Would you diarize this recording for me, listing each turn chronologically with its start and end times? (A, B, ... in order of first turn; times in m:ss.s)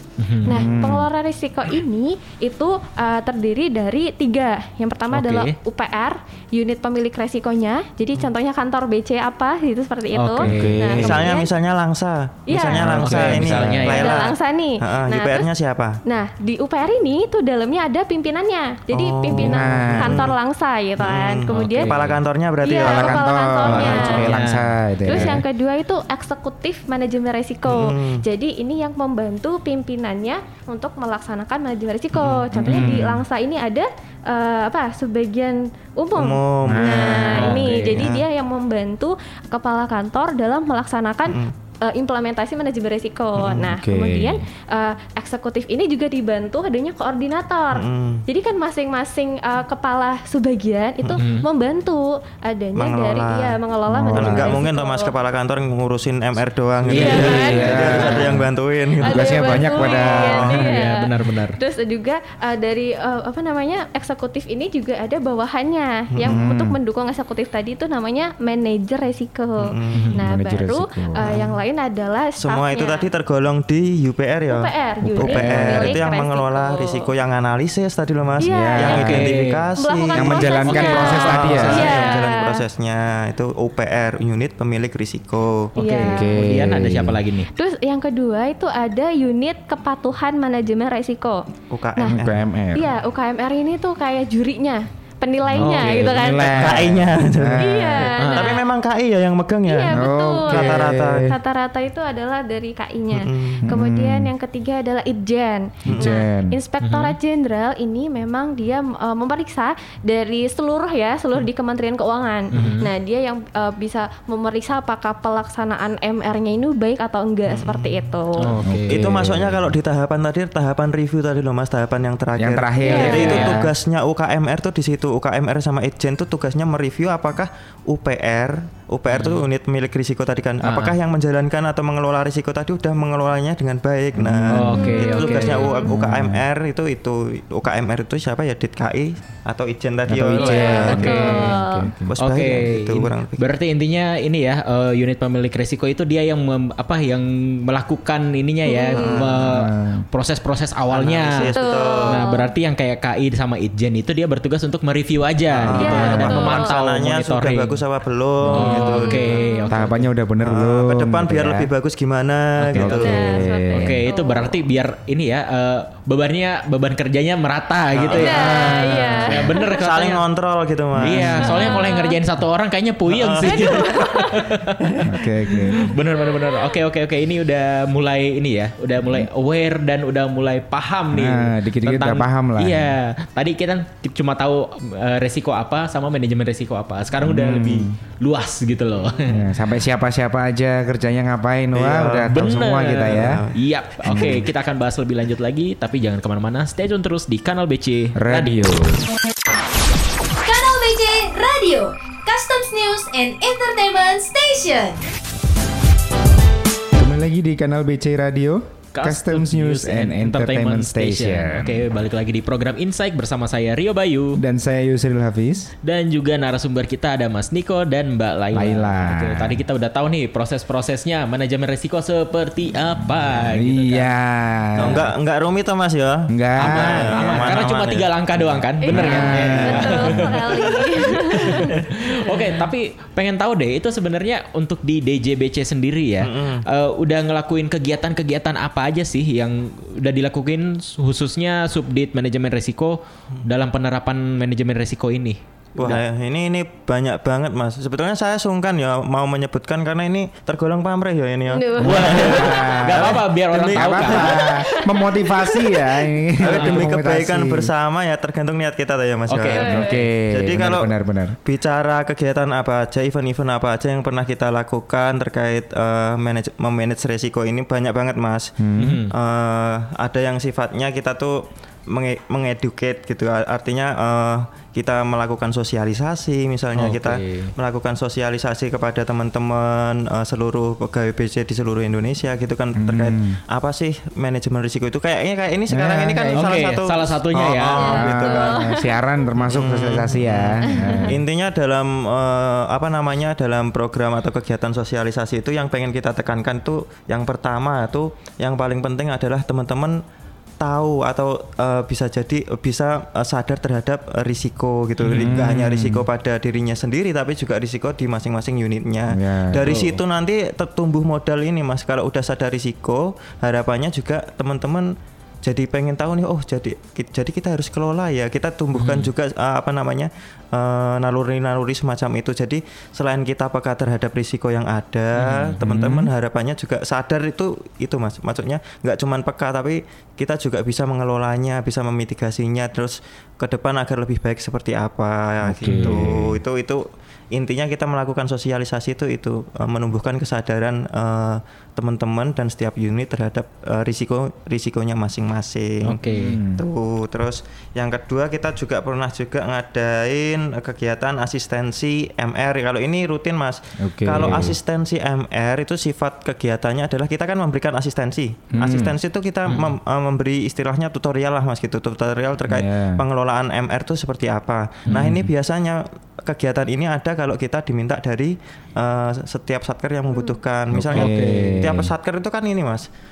0:00.2-0:00.7 A
0:00.5-0:11.5 B
0:00.5-0:01.1 C
0:05.1-0:05.6 A
0:10.2-0:10.8 A
0:10.4-0:11.3 C
0:11.0-0:16.0 D
0:12.5-0:13.0 B
0:12.8-0:14.0 C
0:13.0-0:14.2 A
0:13.9-0:15.5 B
0:16.0-0:22.0 B
0:18.9-0:20.4 D
0:19.3-0:20.3 C
0:21.0-0:24.2 D
0:21.5-0:22.2 A
0:22.6-0:24.3 B
0:22.8-0:25.4 C
0:23.9-0:25.2 A
0:25.1-0:55.1 B
0:27.7-0:28.2 D
0:32.1-0:32.8 D
0:32.6-0:33.2 C
0:32.6-0:33.1 A
0:36.2-0:38.2 D
0:36.6-0:37.3 C
0:37.3-0:38.1 A
0:41.3-0:41.5 D
0:43.4-0:43.7 D
0:43.6-0:44.4 C
0:47.7-0:48.2 D
0:51.2-0:51.5 A
0:52.8-0:53.6 D
0:53.9-0:54.6 C
0:54.1-1:00.6 D
0:56.9-0:58.2 A
0:56.9-0:58.5 C
0:57.0-0:58.2 B
0:59.0-1:00.7 C
0:59.0-1:13.1 B
1:00.5-1:01.6 A
1:06.1-1:06.4 D
1:06.2-1:06.8 C
1:09.6-1:10.1 D
1:10.1-1:11.4 C
1:11.2-1:11.6 D
1:12.4-1:25.7 D
1:14.5-1:17.1 B
1:15.0-1:16.0 C
1:18.4-1:19.2 B
1:18.4-1:19.3 C
1:18.9-1:19.6 A
1:19.8-1:22.6 B
1:20.1-1:22.0 C
1:20.7-1:22.2 A
1:25.8-1:27.5 A
1:25.8-1:26.3 B
1:26.0-1:27.2 C
1:27.6-1:31.4 B
1:31.7-1:32.4 D
1:32.1-1:32.9 C
1:32.8-1:36.5 B
1:35.5-1:37.8 C
1:35.6-1:36.9 A
1:36.4-1:41.3 D
1:37.6-1:38.6 B
1:38.2-1:38.5 A
1:39.7-1:58.5 B
1:39.9-1:41.3 C
1:43.1-1:43.8 D
1:43.6-1:44.3 C
1:45.8-1:46.6 C
1:46.8-1:47.2 A
1:52.5-1:52.9 A
1:57.5-1:58.0 D
1:58.4-1:59.0 A
1:58.6-1:59.7 C
1:58.9-2:21.4 D
2:02.4-2:03.7 C
2:02.8-2:03.4 B
2:02.9-2:03.6 A
2:09.1-2:09.4 A
2:10.6-2:11.0 A
2:14.2-2:14.9 C
2:14.5-2:15.8 A
2:14.7-2:15.9 B
2:15.8-2:16.4 C
2:20.1-2:22.1 C
2:20.4-2:21.9 B
2:20.9-2:21.5 A
2:22.0-2:23.4 D
2:22.2-2:31.5 A
2:28.7-2:29.2 B
2:29.0-2:29.5 D
2:29.4-2:30.0 C
2:30.9-2:32.2 D
2:31.6-2:32.5 B
2:32.1-2:37.8 A
2:35.5-2:39.4 D
2:35.8-2:36.8 B
2:35.8-2:36.3 C
2:38.4-2:38.9 C
2:38.4-2:40.1 A
2:38.7-2:39.7 B
2:39.7-2:41.7 C
2:40.4-2:43.4 D
2:42.6-2:43.2 A
2:42.7-2:44.0 C
2:43.0-2:44.6 B
2:43.7-2:48.7 A
2:47.9-2:48.6 D
2:48.1-2:49.8 B
2:48.2-2:49.5 C
2:49.3-2:50.2 A
2:49.8-2:51.8 D
2:51.0-2:54.8 A
2:51.0-2:51.3 C
2:51.4-2:52.2 B
2:53.1-2:54.0 D
2:53.4-2:54.5 B
2:55.0-2:56.0 C
2:55.8-3:09.4 A
2:56.4-2:56.7 B
2:59.0-2:59.3 C
3:01.1-3:03.0 C
3:07.2-3:08.0 C
3:09.3-3:13.4 C
3:11.7-3:12.5 D
3:12.3-3:18.8 A
3:13.0-3:13.6 D
3:14.1-3:14.5 C
3:18.2-3:19.0 C
3:20.4-3:25.0 E
3:27.0-3:31.9 C
3:29.0-3:34.4 A
3:34.4-3:35.7 C
3:35.8-3:44.1 A
3:38.5-3:39.6 C
3:43.3-3:45.1 C
3:44.8-3:48.6 D
3:46.3-3:47.6 C
3:46.6-4:06.0 A
3:48.8-3:52.5 B
3:48.9-3:50.3 C
3:49.1-3:50.1 D
3:56.2-3:56.6 D
4:05.8-4:14.5 D
4:11.5-4:12.1 B
4:11.8-4:14.4 A
4:11.9-4:17.7 C
4:14.5-4:15.9 B
4:16.4-4:20.9 D
4:16.4-4:16.9 A
4:19.3-4:20.0 A
4:19.5-4:20.1 B
4:19.7-4:21.4 C
4:21.4-4:28.5 D
4:28.6-4:29.0 C
4:28.8-4:29.1 A
4:29.1-4:48.6 D
4:36.8-4:37.5 A
4:42.8-4:43.4 C
4:45.7-4:46.6 C
4:46.3-4:48.1 A
4:47.8-4:48.9 B
4:47.9-4:51.2 C
4:49.4-5:00.0 D
4:50.7-4:51.2 B
5:00.6-5:14.9 D
5:05.0-5:05.4 A
5:05.1-5:06.1 C
5:09.1-5:09.7 C
5:09.7-5:10.0 A
5:15.4-5:46.0 D
5:18.8-5:19.1 A
5:25.2-5:25.6 A
5:25.6-5:26.1 C
5:35.4-5:36.4 C
5:35.7-5:36.1 A
5:45.8-5:46.4 A
5:46.1-5:46.6 C
5:46.6-6:12.9 D
5:53.8-5:54.6 C
5:58.5-5:59.0 C
5:59.5-5:59.8 A
6:02.5-6:03.0 C
6:04.9-6:05.3 A
6:10.7-6:11.9 C
6:10.9-6:11.6 A